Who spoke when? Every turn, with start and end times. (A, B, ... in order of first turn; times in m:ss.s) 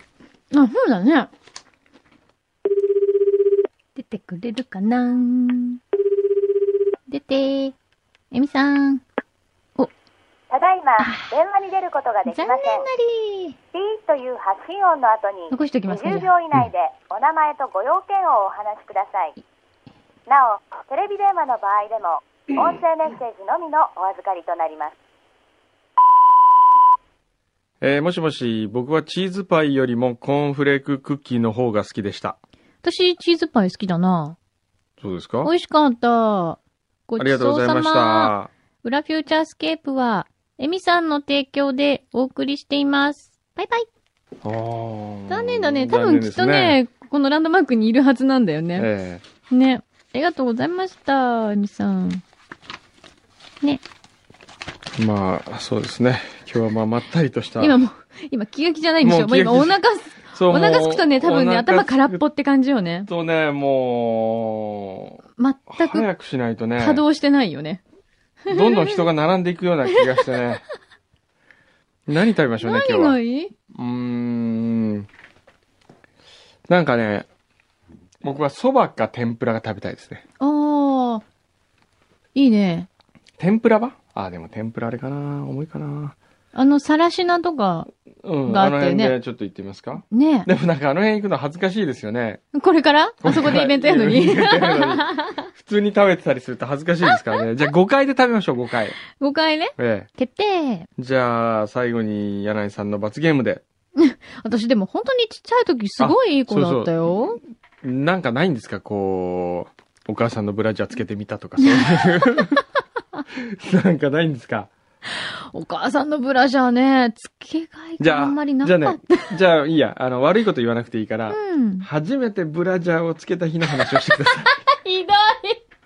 0:00.5-0:01.3 A
0:03.9-0:05.8 A
0:07.1-0:07.8 A
0:08.3-0:09.0 A
0:10.5-0:12.9 B
0:11.0-0:11.3 A
0:12.2-0:13.6 A
0:13.7-0:19.4 B
0:15.5-0:16.4 A
0:20.3-0:24.9 B
0:27.8-0:32.4 C
0:32.8-0:34.4 A
0:35.0-0:35.5 C
0:35.4-0:43.9 A
0:37.2-0:38.5 C
0:44.4-0:46.8 C
0:45.3-0:48.9 A
0:48.8-0:49.2 C
0:49.5-0:52.2 A
0:55.0-0:57.8 C
0:57.6-1:03.1 A
0:59.0-0:59.8 C
1:00.3-1:02.2 C
1:03.1-1:05.2 C
1:05.4-1:06.1 A
1:05.7-1:07.0 C
1:06.8-1:07.8 A
1:08.5-1:09.0 A
1:08.5-1:10.6 C
1:10.1-1:10.6 A
1:12.1-1:13.2 C
1:12.6-1:13.5 A
1:13.7-1:15.1 C
1:16.7-1:17.3 C
1:18.2-1:20.2 C
1:20.4-1:21.2 A
1:22.3-1:22.9 A
1:23.4-1:26.1 C
1:26.5-1:27.9 A
1:28.2-1:32.4 C
1:28.5-1:29.2 A
1:30.1-1:30.5 A
1:32.5-1:35.4 A
1:33.2-1:39.0 C
1:37.1-1:37.4 A
1:39.2-1:40.9 A
1:39.8-1:40.1 C
1:41.0-1:43.6 C
1:44.0-1:47.4 A
1:46.0-1:47.1 C
1:47.8-1:52.6 C
1:51.6-1:52.5 A
1:53.3-1:54.7 C
1:55.2-1:59.4 A
1:58.0-2:04.5 C
2:01.3-2:01.9 A
2:04.2-2:05.6 A